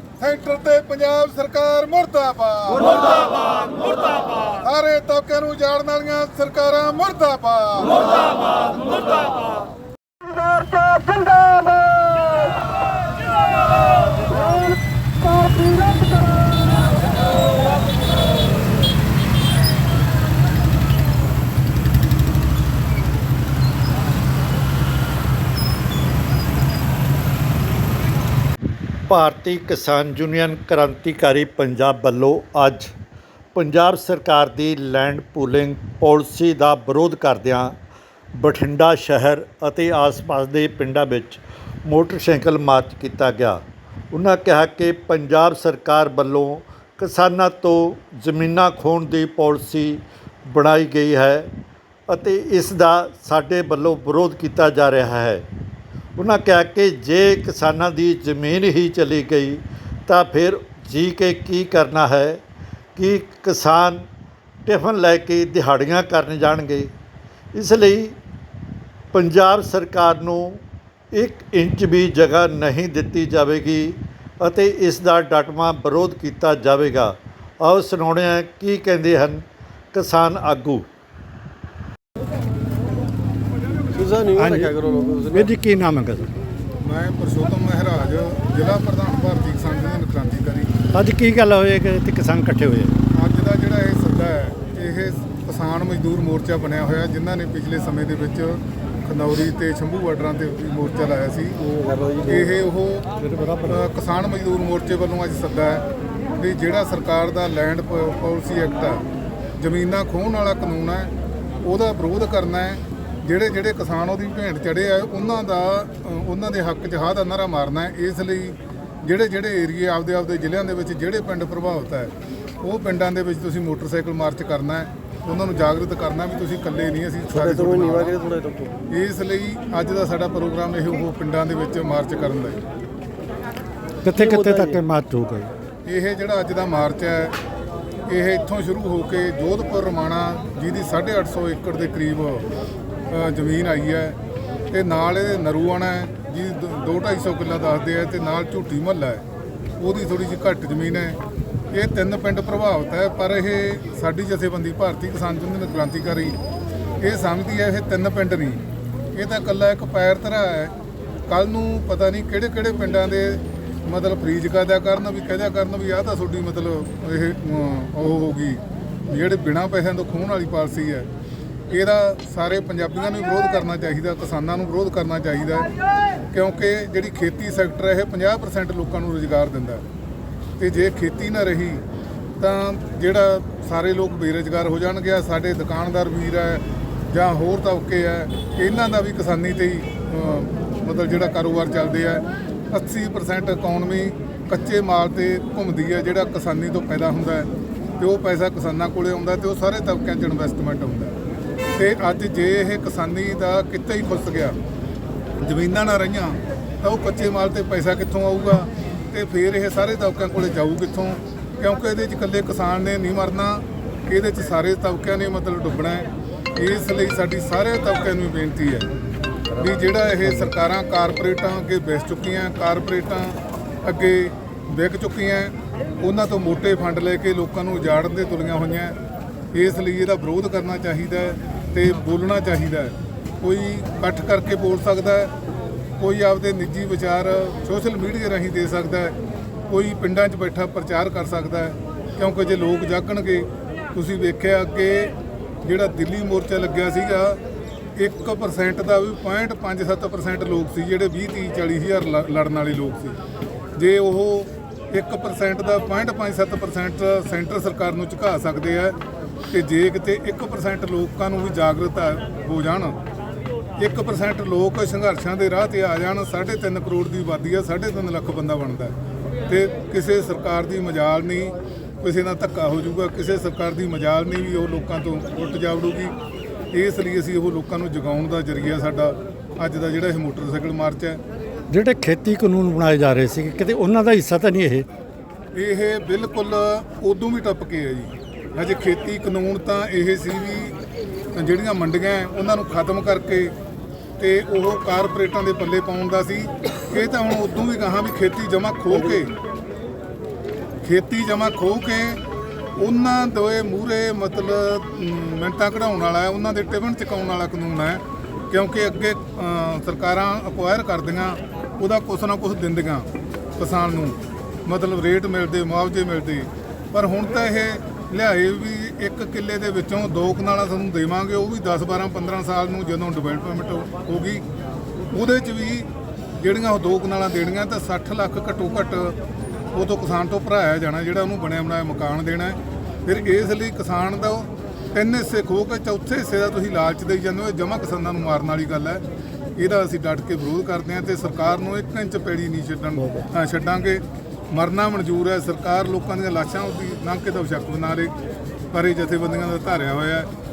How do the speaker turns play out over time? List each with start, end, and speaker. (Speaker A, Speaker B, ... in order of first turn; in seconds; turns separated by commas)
Speaker A: 0.2-3.2, Speaker A: 4.5-8.1, Speaker B: 29.1-32.9, Speaker B: 33.5-37.7, Speaker B: 38.3-51.5, Speaker B: 52.1-55.5, Speaker B: 56.2-62.4, Speaker B: 63.0-64.0, Speaker B: 64.7-66.9, Speaker B: 67.5-68.2, Speaker B: 69.1-70.6, Speaker B: 71.1-80.8, Speaker C: 83.9-85.5, Speaker B: 84.3-86.3, Speaker A: 86.8-90.7, Speaker B: 90.9-93.0, Speaker A: 93.1-101.6, Speaker C: 101.6-102.4, Speaker A: 102.2-103.1, Speaker B: 103.2-103.8, Speaker A: 103.6-105.8, Speaker A: 106.4-109.0, Speaker A: 109.6-111.1, Speaker A: 111.6-128.1, Speaker C: 127.3-128.7, Speaker A: 128.9-132.6, Speaker B: 134.0-135.5, Speaker C: 134.1-134.8, Speaker A: 135.8-137.3, Speaker A: 138.1-142.5, Speaker A: 143.1-144.2, Speaker A: 144.7-149.2, Speaker A: 149.8-151.2, Speaker A: 151.7-156.4, Speaker A: 157.0-158.6, Speaker A: 159.1-160.7, Speaker A: 161.3-171.1, Speaker A: 171.7-175.7, Speaker A: 176.3-179.8, Speaker A: 180.6-181.8, Speaker A: 182.4-201.2, Speaker A: 201.8-204.6, Speaker A: 205.4-218.9, Speaker A: 219.6-229.0, Speaker A: 229.5-235.3, Speaker A: 236.0-239.1, Speaker A: 239.7-247.4, Speaker A: 247.9-253.2, Speaker A: 253.8-258.9, Speaker A: 259.5-263.0, Speaker A: 263.8-268.9, Speaker A: 269.5-276.1, Speaker A: 276.7-281.2, Speaker B: 281.7-284.9, Speaker A: 285.5-290.8, Speaker A: 291.3-293.5, Speaker A: 294.2-299.3, Speaker A: 300.8-302.2, Speaker A: 302.8-324.4, Speaker A: 325.1-325.9, Speaker A: 326.4-329.1, Speaker A: 329.7-339.0, Speaker A: 339.6-348.1, Speaker B: 343.0-343.2, Speaker A: 348.7-350.3